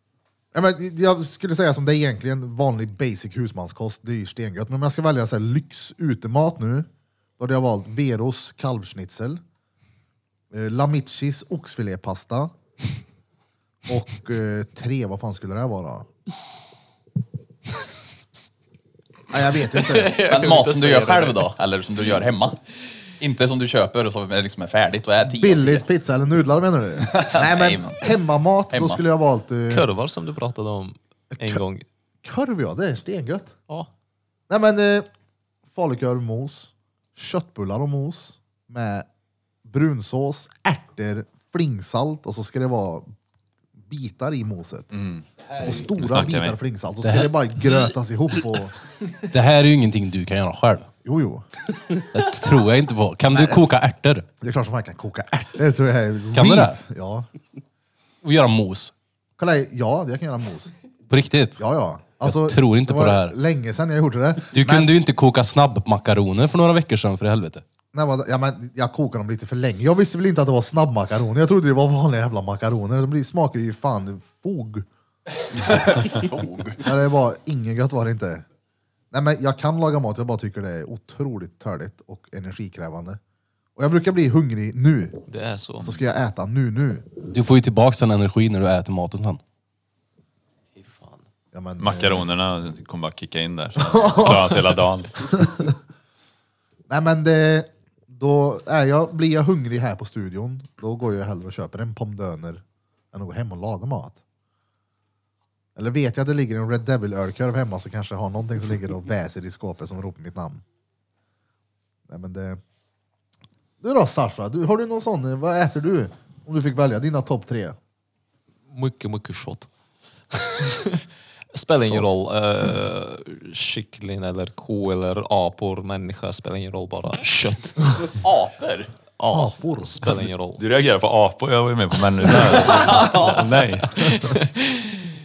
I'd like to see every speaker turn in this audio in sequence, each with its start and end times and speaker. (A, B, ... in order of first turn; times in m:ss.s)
0:00.5-0:06.9 A
0:07.4-0:09.4 A
0:10.5-0:12.5 A
0:13.9-0:16.1 A
0:19.3-0:20.2 A
0:19.7-0:21.5 B
0:20.2-0:22.6 C
0:23.2-0:25.9 C
0:25.3-0:29.9 A
0:27.0-0:28.1 C
0:28.7-0:29.0 C
0:29.7-0:31.8 B
0:31.3-0:31.6 A
0:32.2-0:33.5 A
0:34.5-0:35.1 A
0:35.7-0:39.1 A
0:39.6-0:43.1 A
0:43.9-0:45.0 A
0:44.9-0:46.6 D
0:45.5-0:45.8 E
0:45.6-0:48.7 A
0:47.0-0:47.4 E
0:49.2-0:50.9 E
0:51.0-0:51.5 A
0:52.1-0:54.3 E
0:54.4-0:57.3 A
0:56.3-0:56.8 E
0:58.2-0:58.9 E
0:59.4-1:00.7 A
1:01.1-1:01.6 E
1:01.6-1:04.9 A
1:02.2-1:03.4 E
1:04.5-1:07.6 E
1:07.9-1:14.9 A
1:15.5-1:16.9 C
1:16.8-1:18.4 A
1:19.1-1:23.2 A
1:23.8-1:25.2 A
1:25.3-1:26.0 B
1:25.8-1:27.1 A
1:27.3-1:29.4 E
1:30.8-1:31.2 B
1:31.5-1:32.2 A
1:31.8-1:35.5 D
1:33.8-1:34.6 A
1:36.9-1:44.2 A
1:45.8-1:50.6 A
1:52.1-1:52.6 A
1:53.8-1:57.8 A
1:58.7-1:59.7 B
2:00.3-2:08.0 B
2:08.1-2:08.9 C
2:09.2-2:10.6 B
2:09.3-2:10.2 A
2:10.6-2:14.3 D
2:12.7-2:13.4 C
2:12.8-2:13.1 B
2:14.0-2:15.0 B